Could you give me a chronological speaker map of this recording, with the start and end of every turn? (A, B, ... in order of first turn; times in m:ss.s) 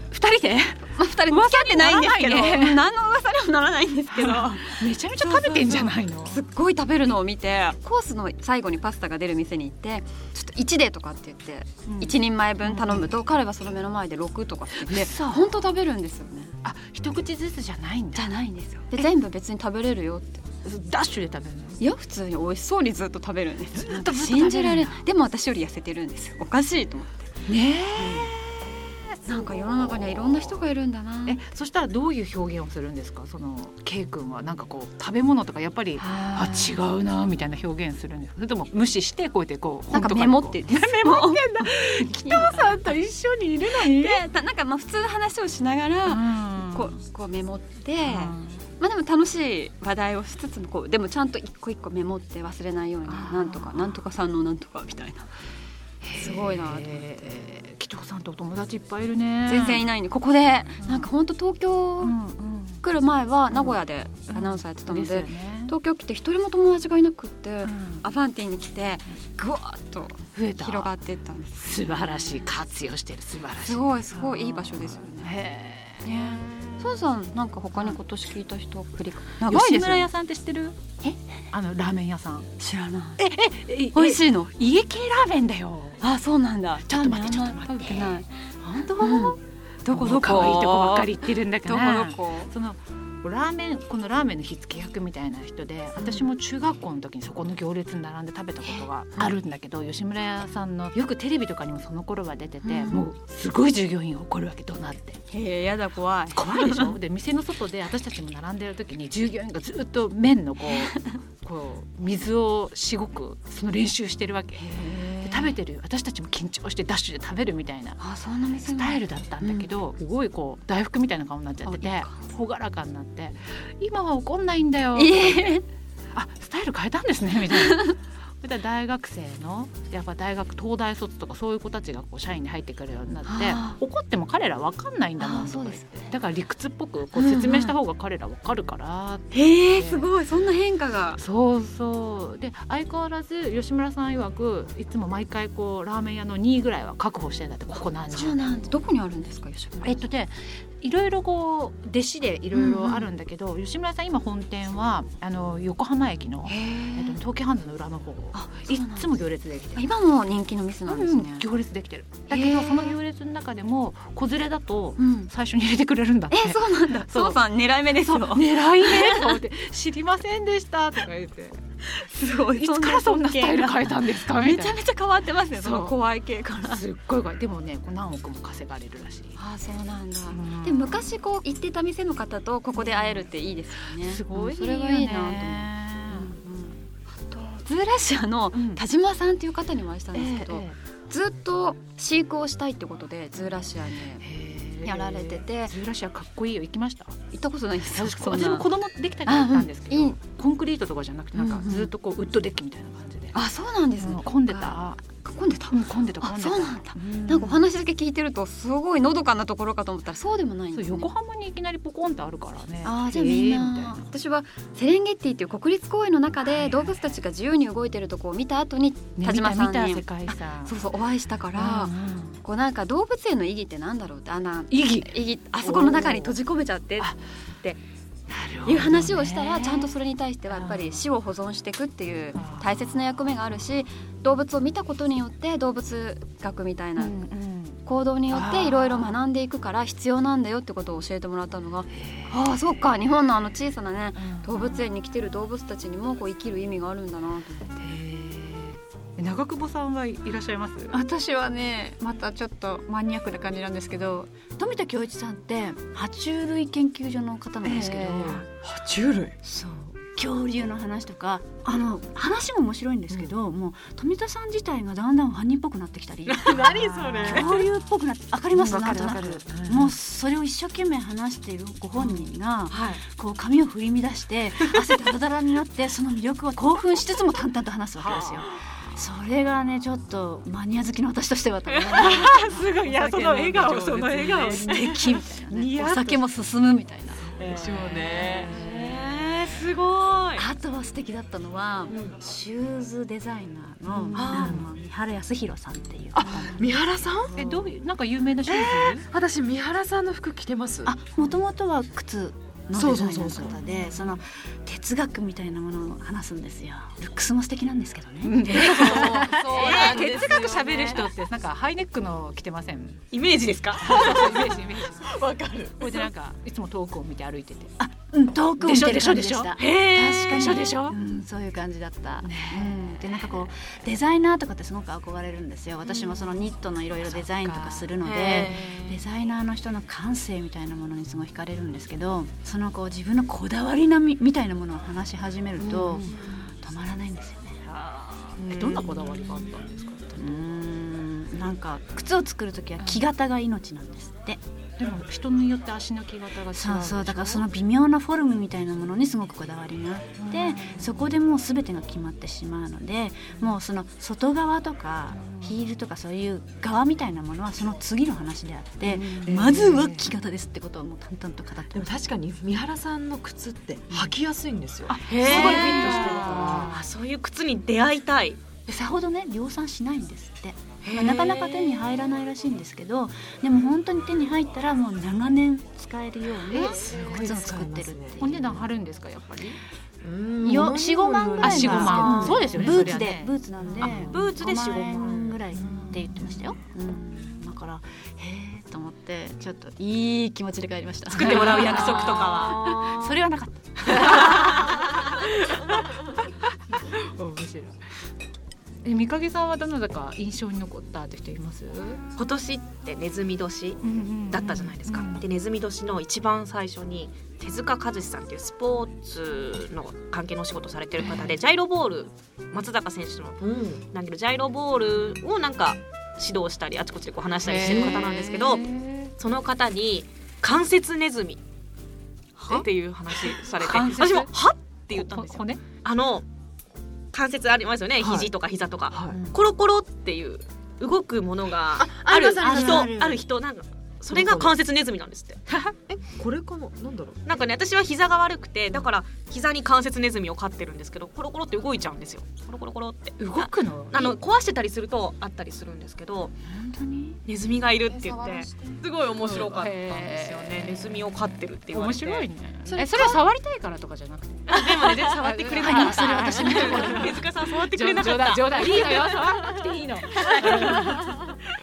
0:00.1-0:02.8 A
0:00.9-0:16.5 B
0:04.2-0:06.4 A
0:11.8-0:13.1 A
0:14.8-0:15.5 A
0:16.6-0:18.4 A
0:18.1-0:20.4 B
0:20.6-0:21.8 A
0:21.8-0:27.4 B
0:23.7-0:25.0 A
0:27.5-0:28.3 A
0:28.0-0:28.3 B
0:29.2-0:31.4 B
0:31.2-0:44.2 A
0:36.0-0:36.7 B
0:39.9-0:43.0 B
0:43.6-0:55.3 B
0:46.0-0:46.9 A
0:48.0-0:48.6 A
0:53.1-0:53.9 A
0:56.0-0:59.9 A
0:56.2-0:57.0 B
0:59.4-1:02.1 B
1:00.8-1:01.1 A
1:02.0-1:02.8 A
1:02.8-1:12.4 B
1:03.5-1:03.8 A
1:04.3-1:05.7 A
1:07.6-1:08.1 A
1:10.3-1:10.9 A
1:11.6-1:16.5 A
1:13.6-1:15.3 B
1:16.0-1:20.1 B
1:19.4-1:21.0 A
1:21.5-1:22.5 A
1:22.6-1:23.2 B
1:23.2-1:26.0 A
1:23.9-1:24.5 B
1:26.0-1:28.3 B
1:26.9-1:45.2 A
1:29.0-1:32.5 B
1:36.0-1:36.2 B
1:38.7-1:39.3 B
1:42.6-1:43.1 B
1:45.3-1:47.0 B
1:46.3-1:58.0 A
1:54.6-1:55.6 B
1:58.0-1:59.7 B
1:58.6-2:05.6 A
2:01.6-2:02.2 B
2:04.9-2:05.6 B
2:06.1-2:20.1 A
2:07.6-2:08.0 B
2:13.2-2:13.8 B
2:15.2-2:16.1 B
2:17.1-2:17.8 B
2:19.3-2:21.2 B
2:21.2-2:28.8 A
2:28.1-2:30.0 B
2:29.8-2:39.8 A
2:32.5-2:33.1 B
2:36.4-2:37.2 B
2:38.3-2:39.1 B
2:39.7-2:41.4 B
2:40.8-2:47.4 A
2:42.3-2:43.0 B
2:45.0-2:45.3 B
2:46.3-2:49.4 B
2:48.1-2:51.6 A
2:51.8-2:56.8 B
2:52.5-2:54.8 A
2:55.5-2:56.0 A
2:56.7-2:59.3 A
2:59.4-3:14.2 B
3:00.3-3:01.1 A
3:02.8-3:03.3 A
3:04.0-3:06.3 A
3:08.5-3:08.8 A
3:10.1-3:10.8 A
3:14.0-3:17.2 A
3:14.8-3:15.8 B
3:17.3-3:18.7 B
3:17.9-3:23.4 A
3:19.2-3:20.2 B
3:21.3-3:21.9 B
3:23.3-3:31.1 B
3:24.0-3:25.0 A
3:25.7-3:27.6 A
3:30.7-3:34.0 A
3:32.8-3:47.8 B
3:36.4-3:37.0 A
3:39.2-3:40.8 A
3:41.5-3:42.4 A
3:44.7-3:45.1 A
3:45.6-3:46.3 C
3:48.3-3:50.0 A
3:48.6-3:57.2 B
3:50.5-3:51.0 A
3:52.3-3:52.9 A
3:57.0-3:59.1 A
3:57.8-4:08.0 B
4:01.9-4:02.5 A
4:04.2-4:04.9 A
4:07.8-4:11.0 A
4:10.9-4:14.0 B
4:12.8-4:18.4 D
4:17.6-4:18.4 A
4:18.3-4:19.4 C
4:19.4-4:43.3 D
4:23.1-4:23.3 C
4:26.3-4:27.6 C
4:27.2-4:27.6 E
4:28.5-4:30.0 A
4:28.7-4:29.4 C
4:32.0-4:32.3 A
4:32.6-4:33.0 E
4:37.9-4:38.5 A
4:41.7-4:44.8 E
4:42.0-4:48.8 A
4:43.6-4:45.0 C
4:44.4-4:46.1 D
4:47.2-4:48.5 C
4:47.6-4:50.5 E
4:50.4-4:56.9 D
4:53.9-4:54.7 C
4:54.1-4:54.6 E
4:56.1-4:57.6 C
4:57.4-4:59.0 A
4:58.4-5:01.0 C
5:00.8-5:08.8 D
5:02.7-5:03.8 C
5:03.4-5:04.2 A
5:08.2-5:13.0 A
5:08.4-5:11.0 C
5:09.5-5:10.3 E
5:13.1-5:14.0 E
5:13.8-5:17.7 A
5:13.8-5:16.1 C
5:17.8-5:36.0 D
5:18.5-5:19.6 A
5:19.6-5:20.5 E
5:20.3-5:21.0 A
5:22.2-5:23.3 A
5:25.8-5:26.2 E
5:27.0-5:27.9 A
5:28.0-5:29.0 E
5:35.6-5:36.3 A
5:36.6-5:37.6 D
5:37.6-5:40.5 A
5:38.4-5:39.9 E
5:40.1-5:44.4 D
5:42.8-5:43.0 A
5:44.8-5:47.5 A
5:46.5-6:01.9 D
5:50.1-5:51.1 A
5:55.1-5:55.6 A
5:58.9-5:59.4 A
5:59.2-6:00.1 C
6:01.7-6:06.7 C
6:04.9-6:06.9 A
6:05.0-6:08.4 E
6:05.2-6:06.4 D
6:08.6-6:18.6 D
6:10.8-6:11.8 E
6:16.5-6:17.5 A
6:16.5-6:18.6 C
6:18.2-6:19.6 A
6:20.0-6:22.5 C
6:20.4-6:33.2 D
6:21.3-6:24.2 A
6:23.8-6:25.4 E
6:25.6-6:26.4 A
6:31.1-6:32.6 E
6:31.2-6:36.1 A
6:36.7-6:37.8 A
6:38.8-6:42.0 A
6:42.2-6:58.6 E
6:43.8-6:45.2 A
6:51.0-6:51.3 A
6:53.4-6:53.8 C
6:57.4-6:59.1 A
6:57.5-6:58.0 C
6:59.2-7:01.4 E
7:02.4-7:06.2 E
7:02.5-7:03.3 C
7:03.6-7:04.3 A
7:04.9-7:05.6 A
7:07.1-7:15.4 E
7:08.0-7:08.3 C
7:08.9-7:09.2 C
7:11.8-7:12.9 C
7:12.4-7:13.2 D
7:14.1-7:14.7 C
7:15.9-7:17.2 C
7:17.2-7:26.3 E
7:23.2-7:24.2 A
7:26.5-7:27.1 A
7:27.3-7:32.2 E
7:28.0-7:28.8 D
7:29.2-7:41.2 A
7:32.6-7:33.2 C
7:34.5-7:41.0 E
7:34.8-7:37.0 C